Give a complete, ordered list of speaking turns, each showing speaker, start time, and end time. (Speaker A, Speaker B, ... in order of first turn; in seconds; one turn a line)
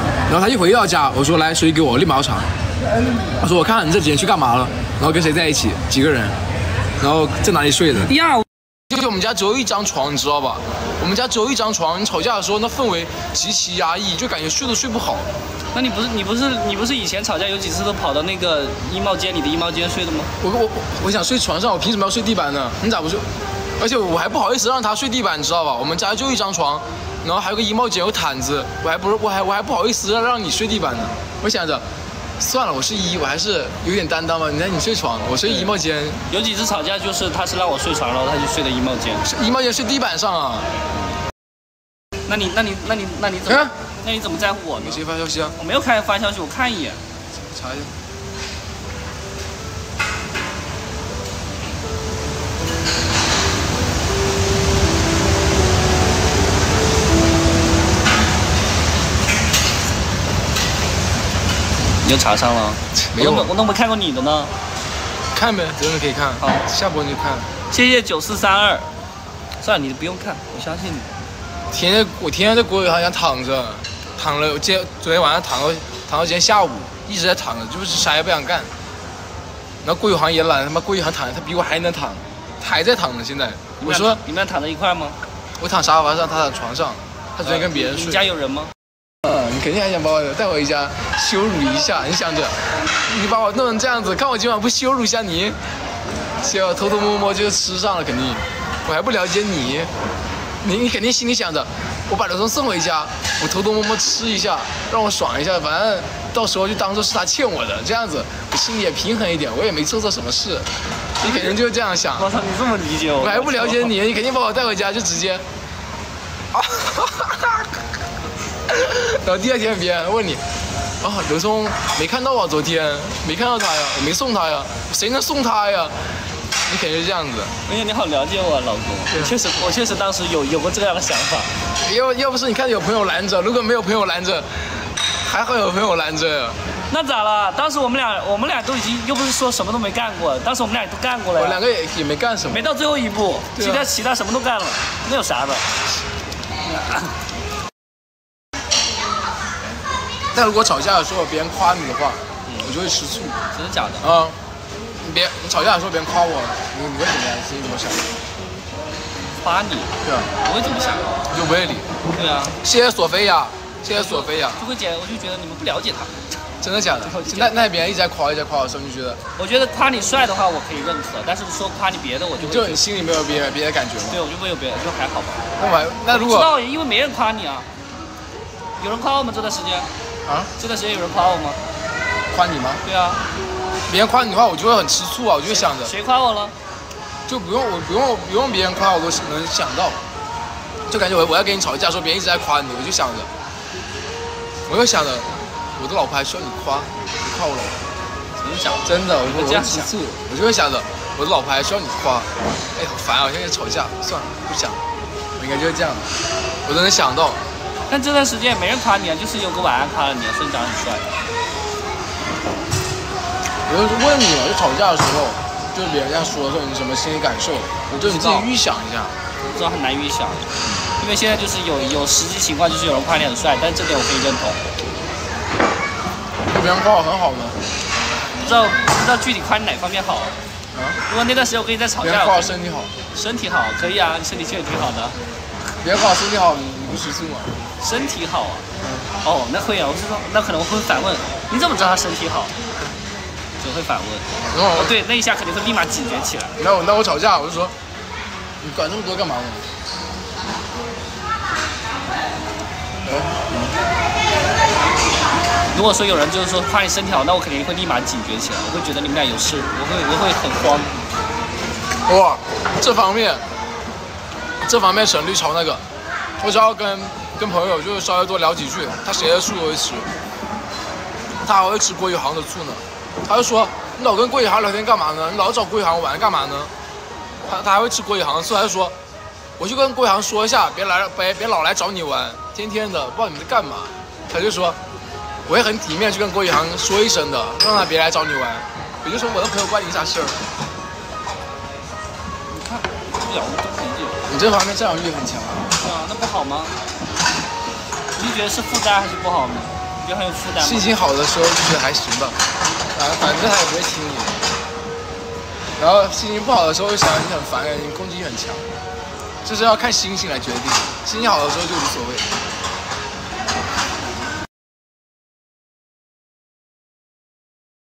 Speaker A: 0.3-2.5
Speaker A: 3.4-6.4
Speaker A: 7.0-8.1
Speaker B: 8.1-8.4
Speaker A: 8.9-15.3
Speaker B: 15.7-20.3
Speaker A: 20.4-23.3
Speaker A: 23.8-31.8
Speaker A: 32.4-36.2
Speaker B: 36.3-39.2
Speaker A: 39.2-40.7
Speaker B: 42.3-45.0
Speaker A: 43.5-43.7
Speaker A: 44.8-45.6
Speaker B: 45.6-47.0
Speaker A: 47.5-47.9
Speaker B: 62.0-64.5
Speaker A: 62.9-63.5
Speaker A: 65.3-67.5
Speaker B: 67.7-68.9
Speaker B: 69.6-71.1
Speaker A: 71.7-78.7
Speaker A: 79.8-84.2
Speaker B: 83.8-85.2
Speaker A: 85.6-88.3
Speaker B: 87.4-88.7
Speaker A: 89.2-95.6
Speaker A: 96.4-99.9
Speaker A: 100.6-110.7
Speaker A: 111.2-112.3
Speaker B: 111.2-111.5
Speaker B: 112.2-113.9
Speaker A: 113.2-115.5
Speaker A: 116.5-117.7
Speaker A: 118.7-120.4
Speaker A: 121.0-126.0
Speaker A: 126.7-127.5
Speaker B: 127.7-131.5
Speaker A: 131.8-136.6
Speaker B: 136.9-141.6
Speaker A: 141.3-142.6
Speaker B: 142.5-145.7
Speaker A: 143.5-143.9
Speaker B: 146.7-147.1
Speaker A: 150.3-153.4
Speaker B: 153.5-154.1
Speaker A: 154.0-154.4
Speaker A: 155.0-158.1
Speaker B: 159.3-161.1
Speaker A: 160.0-160.3
Speaker A: 161.3-161.9
Speaker B: 162.1-162.6
Speaker A: 162.6-164.7
Speaker B: 163.9-166.2
Speaker A: 166.6-169.2
Speaker B: 167.0-167.5
Speaker B: 169.3-172.8
Speaker A: 172.4-174.2
Speaker B: 174.1-175.4
Speaker A: 175.6-176.5
Speaker B: 176.1-177.7
Speaker B: 178.8-179.9
Speaker A: 180.2-180.5
Speaker B: 180.6-181.6
Speaker A: 182.3-182.8
Speaker B: 182.8-183.2
Speaker A: 183.9-185.9
Speaker B: 185.5-186.5
Speaker A: 187.3-190.0
Speaker A: 190.9-193.3
Speaker A: 194.7-197.8
Speaker B: 198.4-199.9
Speaker A: 198.8-204.8
Speaker A: 205.4-206.1
Speaker A: 206.7-207.4
Speaker B: 207.9-211.1
Speaker A: 213.7-219.1
Speaker B: 217.9-218.5
Speaker B: 219.5-224.6
Speaker A: 226.5-227.6
Speaker B: 228.3-230.3
Speaker A: 230.7-231.0
Speaker B: 231.1-232.5
Speaker A: 232.0-232.9
Speaker B: 233.1-235.2
Speaker A: 235.8-237.6
Speaker B: 237.8-238.7
Speaker A: 238.8-239.1
Speaker B: 239.2-242.5
Speaker B: 243.6-246.6
Speaker A: 244.5-244.9
Speaker A: 246.6-247.7
Speaker A: 248.6-249.7
Speaker A: 253.0-253.5
Speaker B: 255.7-261.0
Speaker A: 262.1-263.4
Speaker A: 264.6-265.8
Speaker A: 266.4-270.1
Speaker A: 271.4-276.7
Speaker A: 277.5-278.9
Speaker A: 279.6-284.8
Speaker A: 285.5-290.4
Speaker B: 292.5-294.2
Speaker A: 294.3-295.8
Speaker B: 295.8-296.8
Speaker B: 298.1-300.9
Speaker A: 300.6-302.4
Speaker A: 302.9-304.4
Speaker A: 305.8-308.7
Speaker A: 309.4-312.3